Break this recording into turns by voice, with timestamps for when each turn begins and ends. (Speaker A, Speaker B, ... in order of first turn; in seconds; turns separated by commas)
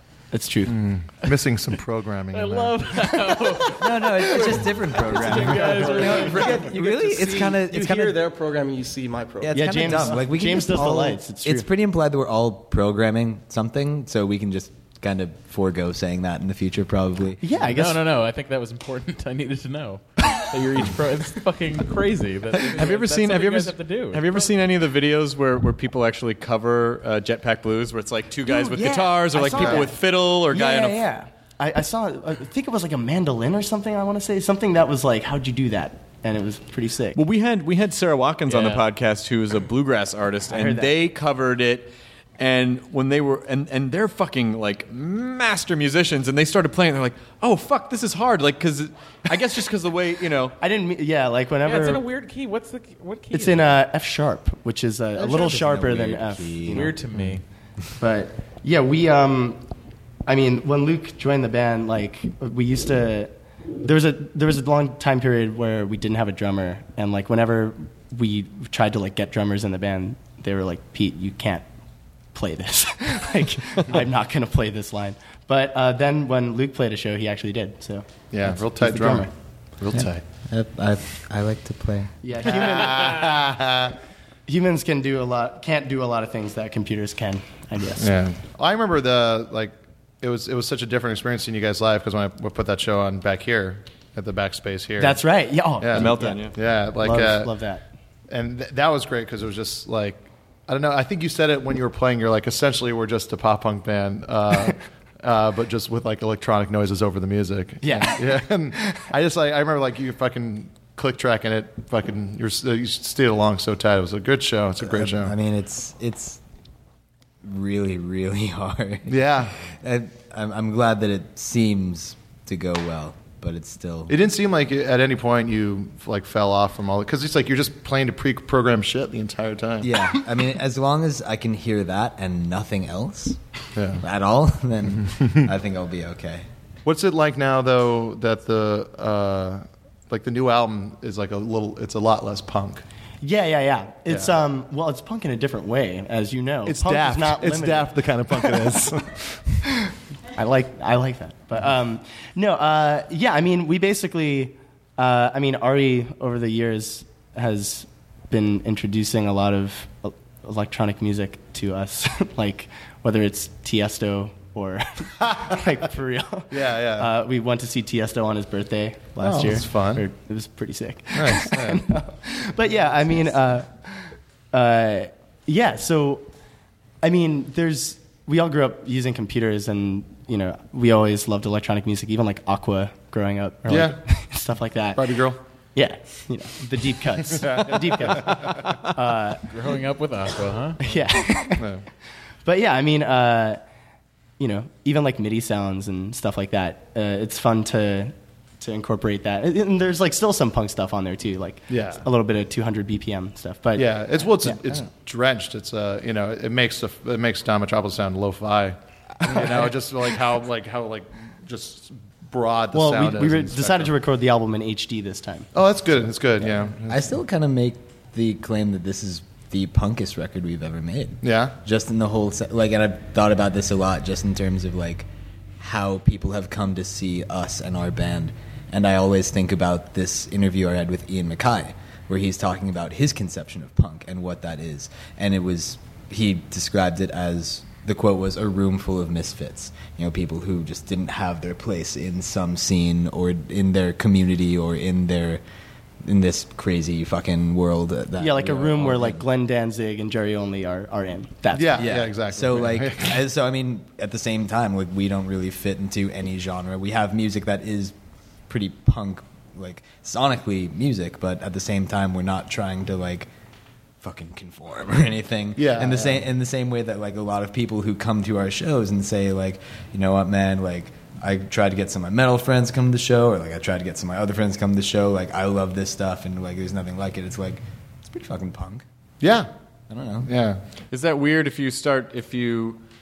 Speaker A: 0.3-0.8, Speaker B: 0.7-3.0, Speaker C: 2.3-4.7, Speaker D: 3.7-8.2, Speaker E: 4.9-10.2, Speaker C: 5.3-6.4, Speaker D: 9.4-17.5, Speaker A: 9.5-11.7, Speaker A: 17.4-18.0, Speaker C: 17.7-24.5, Speaker F: 22.6-31.0, Speaker D: 28.5-29.9, Speaker A: 29.3-29.9, Speaker B: 29.5-29.8, Speaker A: 30.5-37.2, Speaker F: 37.1-50.6, Speaker C: 38.5-38.8, Speaker A: 40.5-40.9, Speaker A: 50.6-52.0, Speaker C: 51.6-53.8, Speaker A: 53.3-57.0, Speaker D: 55.2-57.4, Speaker C: 56.7-57.4, Speaker A: 58.0-59.6, Speaker A: 60.3-71.7, Speaker A: 72.3-79.3, Speaker B: 78.3-80.2, Speaker D: 79.9-82.1, Speaker A: 82.2-83.3, Speaker B: 82.4-84.0, Speaker A: 84.5-88.1, Speaker B: 88.0-95.2, Speaker A: 95.0-97.8, Speaker B: 95.8-97.5, Speaker F: 95.9-96.5, Speaker B: 98.3-115.3, Speaker A: 107.8-108.9, Speaker D: 114.8-116.4, Speaker D: 117.4-124.2, Speaker B: 119.1-119.5, Speaker B: 124.1-129.9, Speaker D: 129.8-133.4, Speaker B: 133.8-134.0, Speaker D: 134.0-136.5, Speaker B: 136.8-142.8, Speaker A: 143.2-148.6, Speaker B: 144.1-144.3, Speaker B: 146.7-149.6, Speaker A: 150.3-176.3, Speaker B: 166.5-167.1, Speaker B: 169.2-170.0, Speaker B: 171.1-171.8, Speaker A: 177.0-185.1, Speaker B: 183.7-184.0, Speaker B: 185.0-185.4, Speaker A: 185.8-189.4, Speaker B: 187.3-188.6, Speaker C: 189.5-190.8, Speaker A: 190.8-191.7, Speaker B: 191.6-191.8, Speaker A: 192.4-193.6, Speaker A: 194.4-203.9, Speaker B: 201.7-202.1, Speaker B: 203.8-213.9, Speaker A: 209.2-209.7, Speaker A: 212.7-215.5, Speaker B: 215.5-217.0, Speaker D: 216.9-225.1, Speaker B: 221.2-221.6, Speaker D: 225.6-245.4, Speaker D: 246.0-249.2, Speaker A: 248.2-251.9, Speaker B: 251.5-253.2, Speaker D: 251.8-257.9, Speaker D: 258.5-263.3, Speaker D: 264.0-278.8, Speaker B: 265.6-266.2, Speaker B: 279.2-279.5, Speaker D: 279.9-280.3, Speaker B: 280.2-280.6, Speaker F: 280.9-282.8